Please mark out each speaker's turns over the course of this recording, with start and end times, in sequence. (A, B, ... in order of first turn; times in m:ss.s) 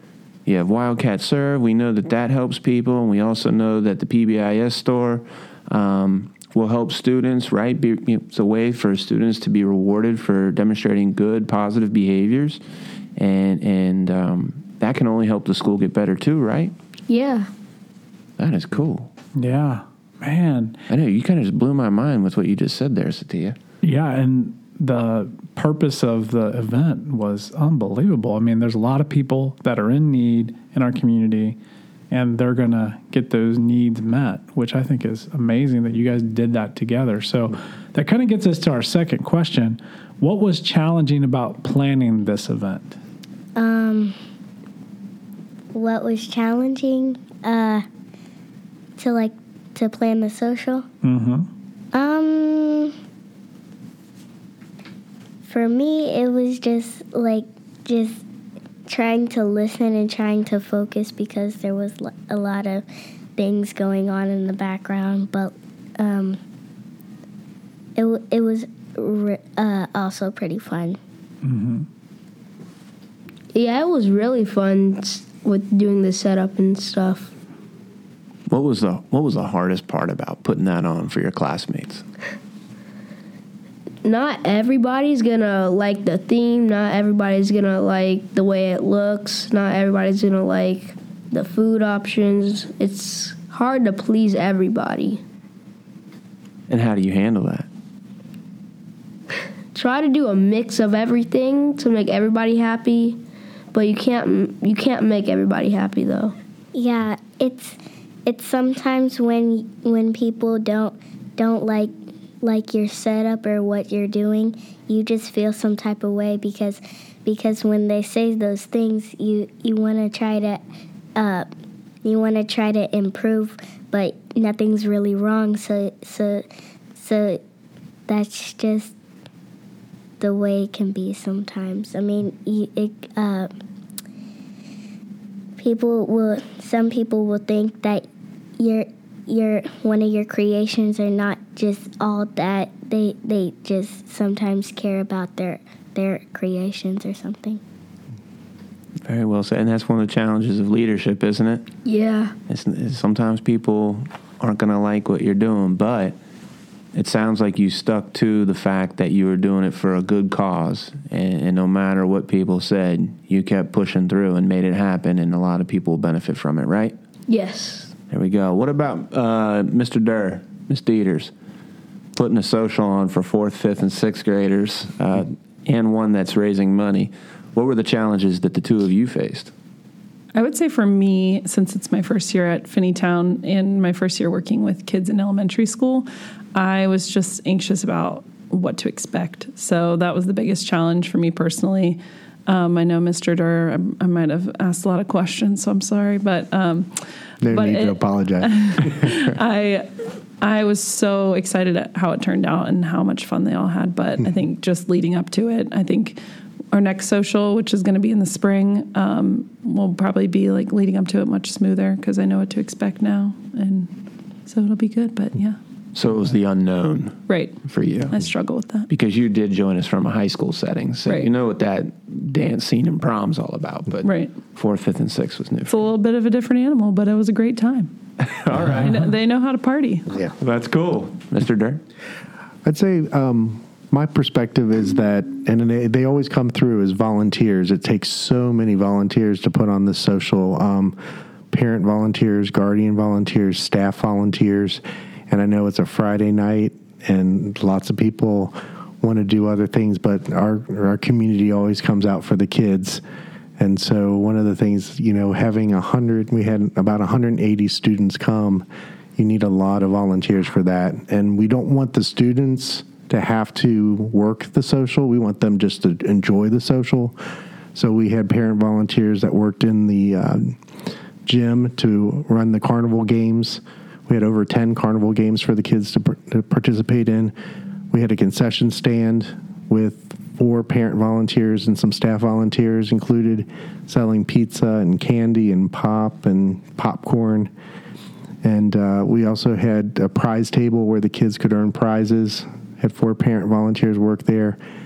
0:00.5-0:12.6 A
0:13.2-0:16.7 A
0:17.1-0:17.5 B
0:18.4-0:19.1 A
0:19.4-0:20.8 C
0:20.9-0:23.6 A
0:23.8-0:31.6 C
0:32.1-0:43.0 C
0:43.6-0:44.2 D
0:45.7-0:47.8 D
0:49.0-0:50.9 D
0:51.0-0:51.5 C
0:51.9-0:53.0 D
0:55.5-0:58.2 D
0:58.9-1:02.8 D
1:03.4-1:06.4 D
1:08.0-1:11.0 D
1:11.4-1:11.9 C
1:13.5-1:17.3 B
1:18.5-1:22.0 A
1:24.0-1:35.2 B
1:36.7-1:37.7 A
1:39.7-1:43.2 B
1:43.7-1:46.4 B
1:46.7-2:00.6 D
2:01.2-2:01.5 D
2:02.0-2:06.4 D
2:07.0-2:07.4 D
2:08.1-2:08.9 D
2:10.2-2:13.5 D
2:15.6-2:18.1 D
2:18.6-2:27.6 D
2:29.0-2:31.7 A
2:31.8-2:32.4 B
2:32.5-2:36.2 A
2:36.9-2:47.0 A
2:47.3-2:47.9 B
2:48.1-2:51.3 A
2:52.2-2:59.5 A
3:00.3-3:26.2 E
3:17.4-3:19.3 F
3:26.7-3:33.9 E
3:34.4-3:35.6 E
3:36.0-3:38.2 A
3:37.3-3:38.9 E
3:38.9-3:45.8 A
3:44.0-3:44.4 E
3:45.7-3:47.9 E
3:48.2-3:49.0 A
3:48.7-3:50.1 E
3:50.4-3:51.8 A
3:52.6-4:01.0 F
4:01.5-4:13.0 F
4:13.6-4:18.6 F
4:19.2-4:27.2 F
4:27.8-4:30.6 F
4:31.2-4:37.3 F
4:37.9-4:47.5 F
4:48.4-4:54.6 F